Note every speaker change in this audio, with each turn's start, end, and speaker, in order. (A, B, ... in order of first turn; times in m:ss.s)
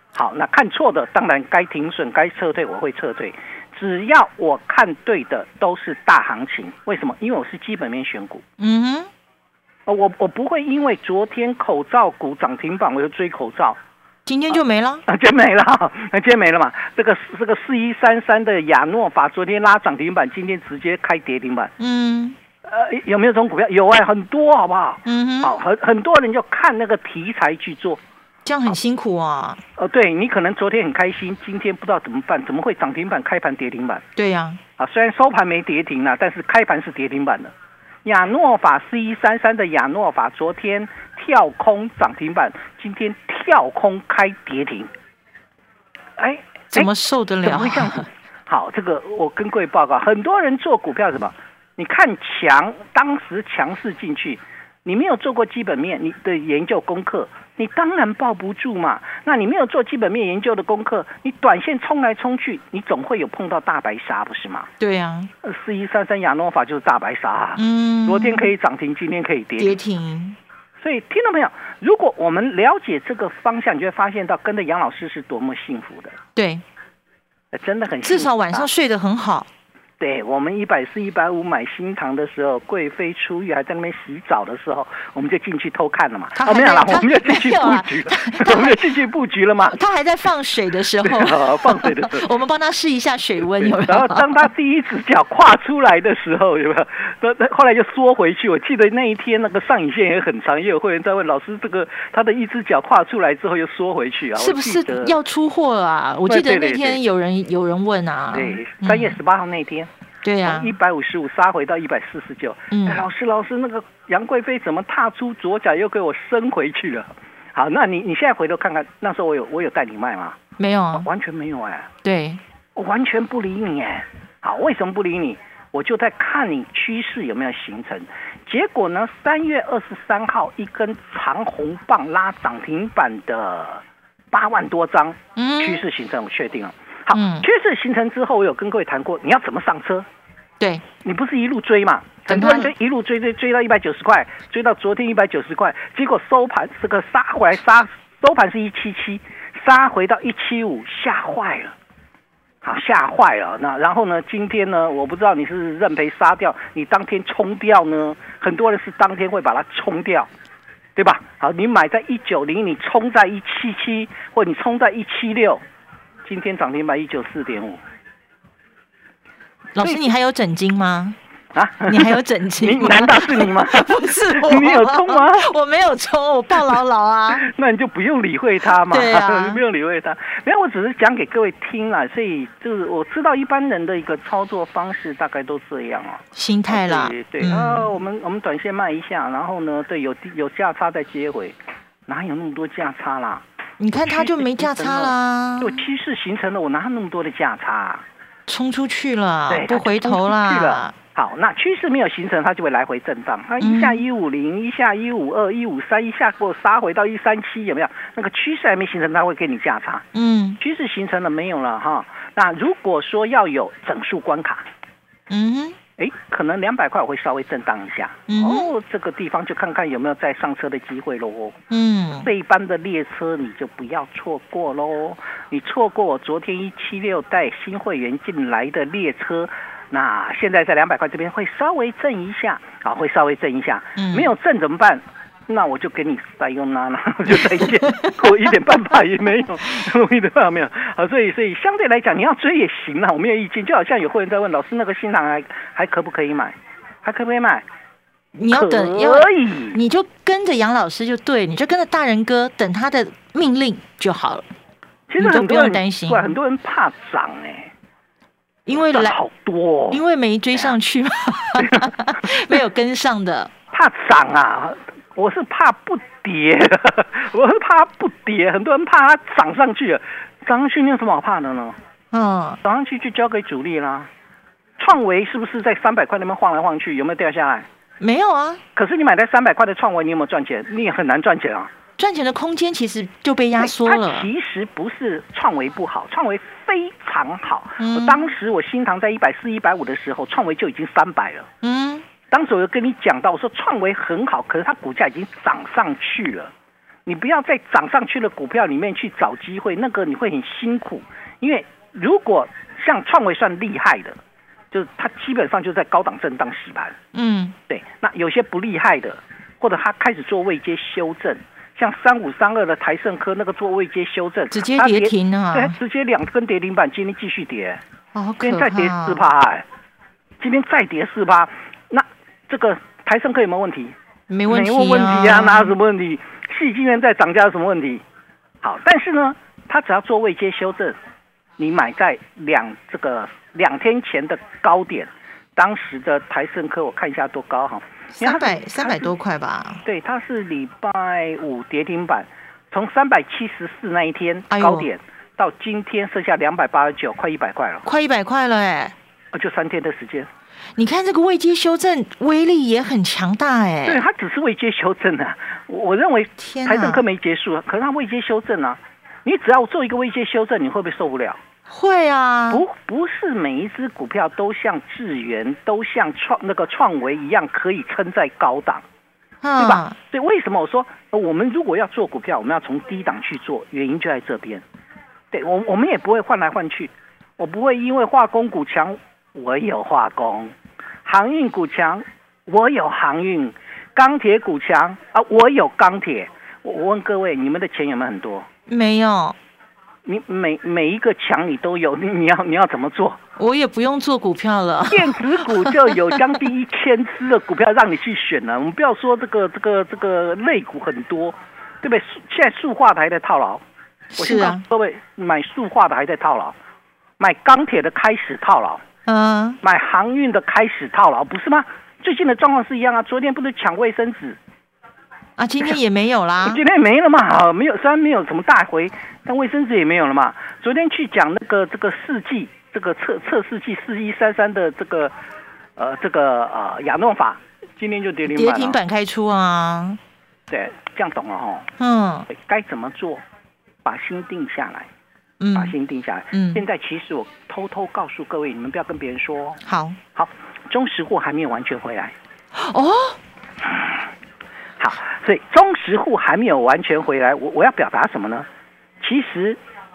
0:00.1-0:08.4 A
0:08.6-0:09.1 B
0:09.8-0:13.8 A
0:14.2-0:15.0 B
0:15.1-0:21.7 A
0:21.8-0:22.4 B
0:22.7-0:28.0 A
0:25.0-0:25.5 B
0:28.4-0:29.6 B
0:29.8-0:34.0 A
0:34.2-0:34.6 B
0:34.8-0:37.5 A
0:38.0-0:44.9 A
0:46.2-0:46.9 A
0:46.7-0:48.0 B
0:47.4-1:04.7 A
1:04.8-1:05.3 B
1:05.4-1:09.8 A
1:07.6-1:08.5 B
1:09.6-1:10.4 B
1:10.8-1:16.2 A
1:16.3-1:16.6 B
1:17.5-1:18.7 A
1:18.0-1:19.5 B
1:20.0-1:29.7 A
1:26.4-1:28.8 B
1:29.7-1:34.4 B
1:31.0-1:32.2 A
1:33.6-1:45.2 A
1:44.4-1:49.2 B
1:46.3-1:47.0 A
1:48.3-1:49.9 A
1:50.2-1:50.7 B
1:50.4-2:00.4 A
1:52.7-1:53.0 B
2:00.6-2:01.1 B
2:00.9-2:01.9 A
2:02.0-2:02.4 B
2:02.8-2:20.0 A
2:15.4-2:15.8 B
2:17.1-2:17.4 B
2:21.0-2:31.7 A
2:22.3-2:22.7 B
2:32.6-2:40.3 A
2:41.0-2:45.6 A
2:46.2-2:47.8 A
2:49.7-2:51.2 B
2:51.5-2:55.5 A
2:51.9-2:57.4 B
2:57.4-3:11.6 A
2:58.9-2:59.6 B
3:06.4-3:07.9 B
3:12.1-3:13.4 A
3:13.8-3:15.8 B
3:14.1-3:18.0 A
3:18.5-3:20.9 B
3:19.5-3:30.0 A
3:23.6-3:24.0 B
3:30.1-3:30.6 B
3:30.6-3:34.6 A
3:35.3-3:35.8 B
3:36.0-3:41.6 A
3:38.3-3:38.7 B
3:41.7-3:42.3 B
3:42.2-4:07.6 A
3:54.0-3:54.3 B
4:08.4-4:14.4 B
4:08.5-4:09.8 A
4:15.1-4:17.7 A
4:15.2-4:16.3 B
4:18.7-4:19.2 B
4:18.8-4:20.0 A
4:19.9-4:23.5 B
4:21.6-4:21.8 A
4:23.7-4:31.8 A
4:32.1-4:32.6 B
4:32.6-4:34.1 A
4:34.8-4:37.7 A
4:38.0-4:38.6 B
4:38.8-4:41.7 A
4:42.0-4:44.3 B
4:43.6-4:51.5 A
4:47.8-4:48.2 B
4:51.6-4:52.0 B
4:52.3-4:56.5 A
4:57.0-5:04.2 A
5:04.7-5:07.0 A
5:07.1-5:07.5 B
5:07.7-5:17.8 A
5:14.5-5:15.7 B
5:18.1-5:19.2 B
5:18.4-5:19.6 A
5:20.4-5:23.9 A
5:24.3-5:25.7 B
5:24.5-5:28.0 A
5:28.6-5:31.0 A
5:31.6-5:39.1 A
5:38.2-5:39.8 B
5:39.8-5:47.8 A
5:44.5-5:44.9 B
5:47.8-5:48.9 B
5:49.3-5:50.3 A
5:50.8-5:54.0 B
5:53.8-6:01.4 A
5:56.4-5:57.0 B
6:01.7-6:02.6 B
6:02.5-6:08.8 A
6:09.4-6:09.9 B
6:09.6-6:14.6 A
6:15.3-6:20.5 A
6:21.0-6:28.5 A
6:28.7-6:29.4 B
6:30.0-6:33.2 A
6:33.4-6:35.7 B
6:34.9-6:43.6 A
6:44.1-6:44.6 B
6:44.2-6:46.5 A
6:47.2-6:48.8 A
6:49.1-6:49.6 B
6:49.6-6:54.4 A
6:55.4-6:56.6 B
6:56.4-7:05.1 A
7:05.8-7:08.8 A
7:08.3-7:10.0 B
7:10.5-7:11.7 A
7:11.8-7:12.3 B
7:12.3-7:13.2 A
7:13.8-7:14.9 A
7:15.4-7:15.7 B
7:15.5-7:19.6 A
7:16.3-7:16.6 B
7:19.6-7:20.0 B
7:20.1-7:22.1 A
7:22.6-7:23.2 B
7:24.8-7:28.5 A
7:29.0-7:29.6 A